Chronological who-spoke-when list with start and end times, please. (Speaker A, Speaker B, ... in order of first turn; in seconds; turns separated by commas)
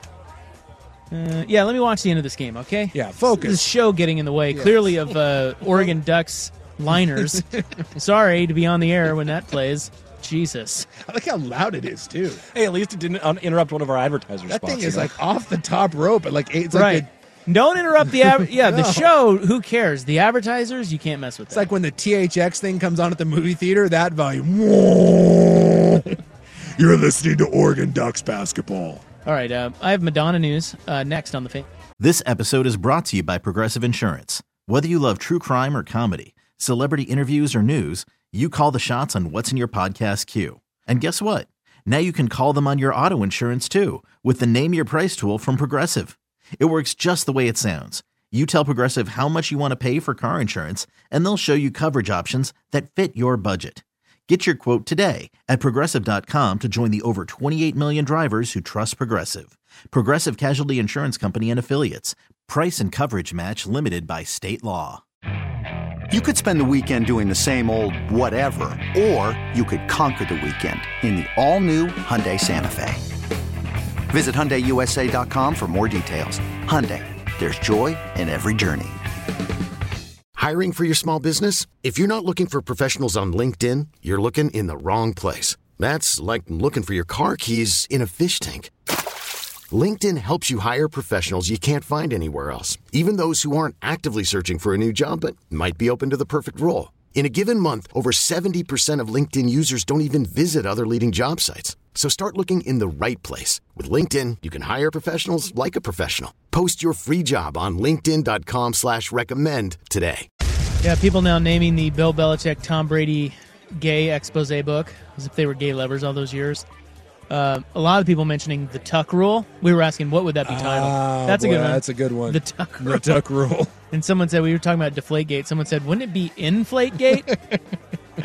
Speaker A: 1.1-10.9, Speaker B: 2.9-3.6, Speaker B: 4.5-5.0, Speaker B: 11.0-12.4, Speaker C: 12.5-15.1, Speaker B: 14.5-17.1, Speaker A: 16.7-21.7, Speaker B: 18.4-19.1, Speaker B: 21.5-26.2, Speaker B: 26.8-29.0, Speaker A: 29.2-31.7, Speaker D: 32.0-65.0, Speaker E: 66.1-73.0, Speaker E: 74.1-79.0, Speaker F: 80.3-88.7, Speaker F: 89.7-110.3, Speaker A: 110.8-116.6, Speaker A: 117.3-123.2, Speaker B: 120.4-123.7, Speaker A: 123.9-127.3, Speaker B: 127.3-127.6